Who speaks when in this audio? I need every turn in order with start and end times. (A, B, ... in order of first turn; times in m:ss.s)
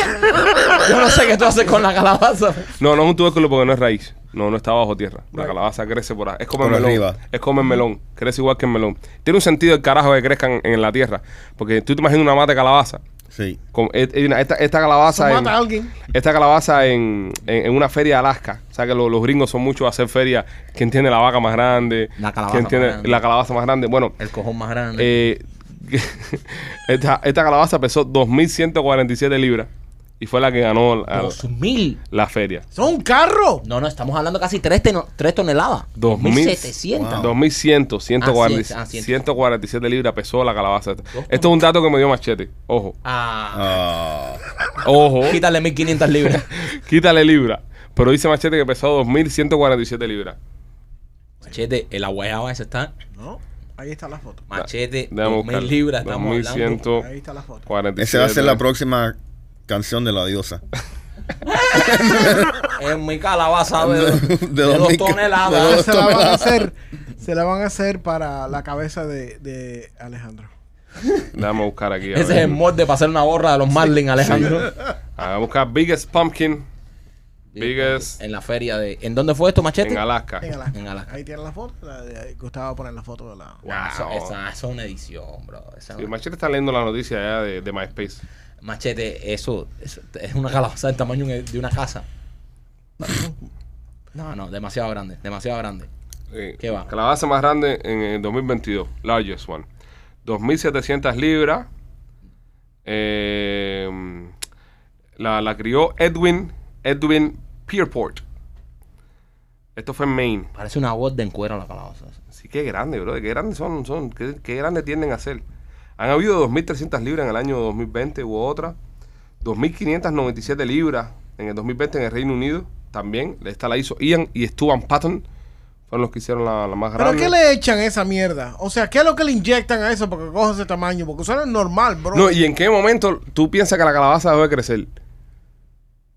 0:00.8-0:02.7 A
0:02.8-0:13.0 B
0:06.6-0:07.2 C
0:13.3-0:13.6 C
0:13.7-0:24.1 B
0:15.1-0:15.9 D
0:22.2-0:23.2 A
0:24.2-0:25.1 A
0:25.0-0:29.7 B
0:30.2-0:31.4 B
0:31.1-0:32.0 A
0:32.1-0:32.6 B
0:32.7-0:33.6 D
0:33.6-0:37.3 A
0:36.0-0:43.0 B
0:36.9-0:37.3 C
0:38.2-0:39.1 A
0:41.1-0:41.5 A
0:43.0-0:43.7 A
0:43.5-0:44.4 C
0:44.8-0:45.4 B
0:45.2-0:46.4 A
0:46.5-0:50.4 B
0:51.4-0:52.9 A
0:53.2-0:54.4 D
0:54.5-0:56.8 A
0:55.1-0:57.1 B
0:56.9-0:57.7 D
0:57.7-0:58.6 B
0:58.0-1:00.6 C
1:01.5-1:02.0 A
1:01.8-1:02.7 C
1:02.7-1:06.0 A
1:03.8-1:06.7 C
1:05.5-1:10.5 D
1:11.3-1:12.6 B
1:12.1-1:14.7 A
1:15.2-1:16.6 B
1:17.5-1:20.0 A
1:17.6-1:18.2 B
1:19.8-1:20.5 B
1:20.4-1:23.6 D
1:20.7-1:21.1 A
1:23.6-1:24.3 B
1:23.6-1:26.1 A
1:26.0-1:28.2 B
1:28.6-1:32.0 A
1:33.0-1:33.3 D
1:34.1-1:35.9 A
1:36.3-1:39.6 B
1:36.6-1:36.9 A
1:40.2-1:41.7 B
1:42.8-1:44.3 B
1:45.2-1:48.2 B
1:49.8-1:50.5 B
1:50.5-1:52.2 A
1:52.3-1:55.4 B
1:56.0-1:58.7 B
1:59.4-2:05.2 B
2:05.9-2:07.3 B
2:07.0-2:12.3 D
2:12.1-2:14.9 B